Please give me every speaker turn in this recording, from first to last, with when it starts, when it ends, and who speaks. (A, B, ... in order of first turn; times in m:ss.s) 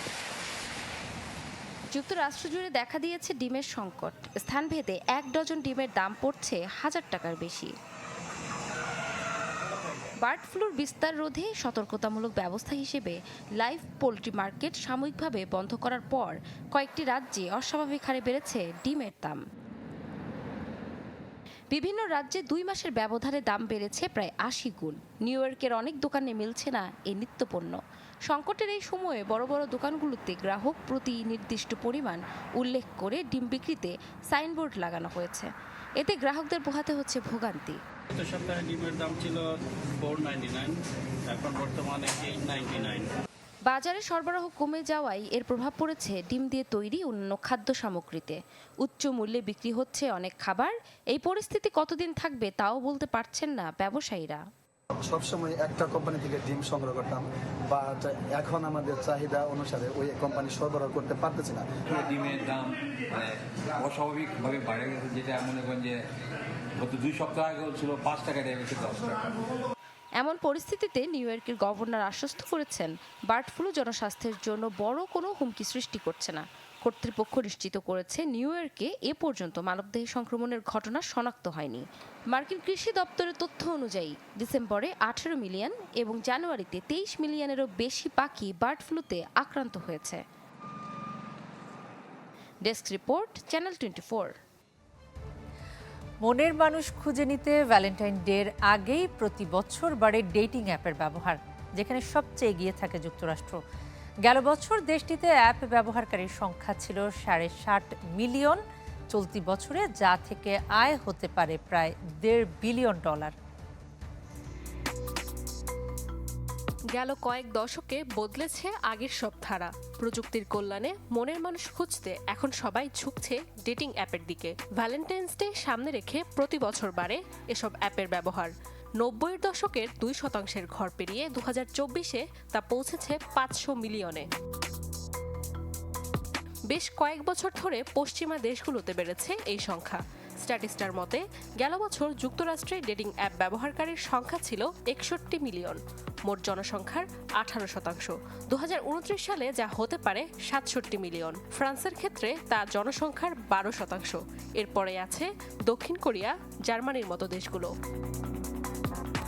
0:01.9-0:07.7 A
0:10.2-0:19.4 A
0:21.7-0:37.8 A
0:38.2-0:39.5 B
0:40.0-0:40.8 B
0:41.3-0:43.1 B
0:43.6-0:54.4 A
0:55.1-1:01.6 C
1:01.8-1:06.0 D
1:06.8-1:09.3 D
1:10.2-1:30.2 A
1:32.6-1:34.3 A
1:36.2-1:43.6 E
1:44.2-1:48.6 E
1:49.1-1:53.3 E
1:56.9-2:14.3 F
2:16.7-2:37.7 F